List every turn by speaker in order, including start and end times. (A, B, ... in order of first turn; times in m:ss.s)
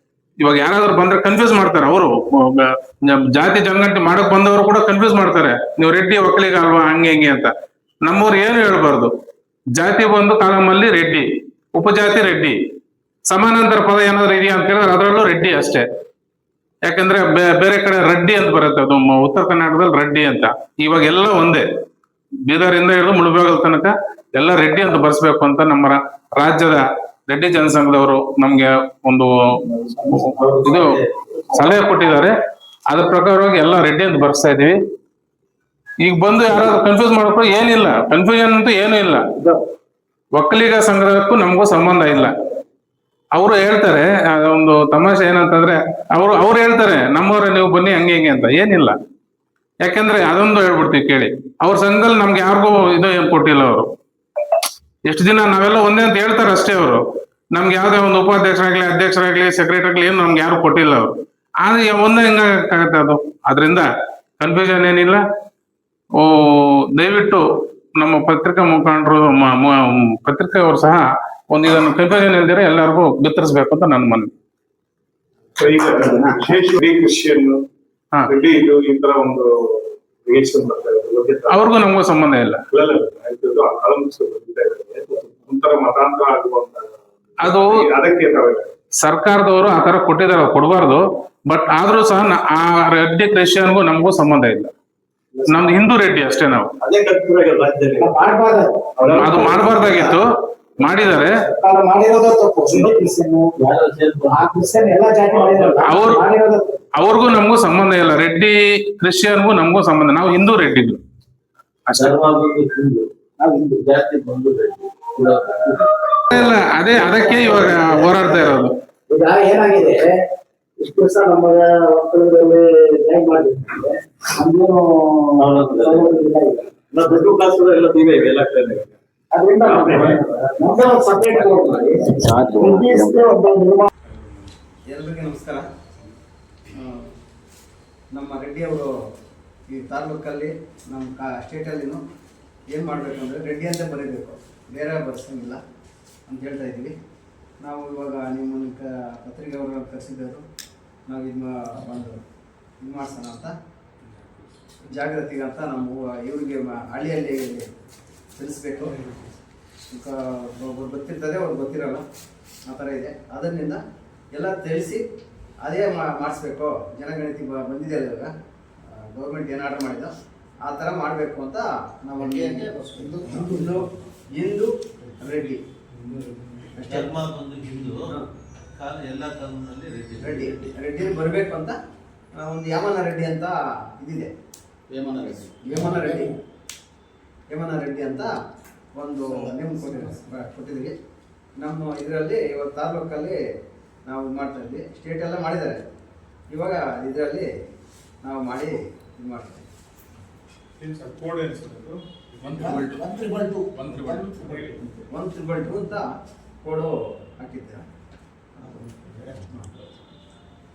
0:00.4-0:07.5 A
0:08.0-0:09.1 A
0:09.8-0:12.6 A
0:13.3-0:15.8 A
0:16.9-0:21.6 A
0:22.4-0:29.6 A
0:29.9-0:31.0 B
0:30.2-0:31.0 A
0:31.5-0:32.3 A
0:32.9-0:34.8 A
0:36.0-0:39.2 A
0:40.3-0:42.3 A
0:43.3-0:48.9 A
0:49.8-0:53.9 A
0:55.1-0:57.0 A
0:57.5-1:01.1 A
1:01.6-1:03.9 A
1:04.4-1:05.2 A
1:06.2-1:07.4 A
1:08.0-1:14.3 A
1:15.6-1:17.6 C
1:16.0-1:16.4 D
1:18.2-1:21.6 C
1:21.5-1:22.6 A
1:22.7-1:28.7 C
1:27.4-1:27.7 A
1:29.0-1:34.7 A
1:35.5-1:36.7 A
1:36.8-1:38.1 B
1:38.0-1:40.2 D
1:39.1-1:40.3 A
1:40.8-1:41.4 A
1:41.3-1:43.5 D
1:43.6-1:44.5 B
1:44.3-1:46.7 D
1:45.2-1:45.8 B
1:45.8-1:46.2 A
1:47.0-1:51.0 A
1:51.9-1:52.2 A
1:51.9-1:55.9 B
1:56.3-1:58.7 A
1:57.1-1:58.2 D
1:59.1-2:00.1 D
2:00.8-2:06.7 D
2:05.4-2:06.1 B
2:06.9-2:08.9 B
2:09.3-2:13.9 D
2:09.7-2:10.2 B
2:14.1-2:14.4 C
2:14.9-2:15.6 E
2:16.7-2:17.1 E
2:18.1-2:18.9 E
2:19.7-2:22.0 E
2:22.7-2:25.6 E
2:26.3-2:26.9 E
2:27.6-2:30.4 E
2:31.1-2:32.2 E
2:32.8-2:33.5 E
2:34.9-2:37.7 E
2:38.3-2:39.0 E
2:39.9-2:42.0 E
2:42.6-2:43.8 E
2:44.3-2:45.0 E
2:45.6-2:48.3 E
2:48.9-2:55.6 E
2:56.1-2:56.7 C
2:56.8-2:57.1 E
2:56.9-2:58.2 F
2:58.8-3:00.8 F
3:00.2-3:01.8 E
3:02.4-3:04.3 E
3:05.2-3:06.4 E
3:07.5-3:08.3 E
3:09.0-3:10.9 E
3:11.6-3:13.3 E
3:14.0-3:15.9 E
3:16.5-3:17.5 E
3:18.2-3:19.6 E
3:20.8-3:22.8 C
3:22.4-3:23.0 A
3:22.7-3:23.7 D
3:23.8-3:24.3 A
3:24.3-3:24.8 C
3:24.9-3:26.1 E
3:26.6-3:27.8 E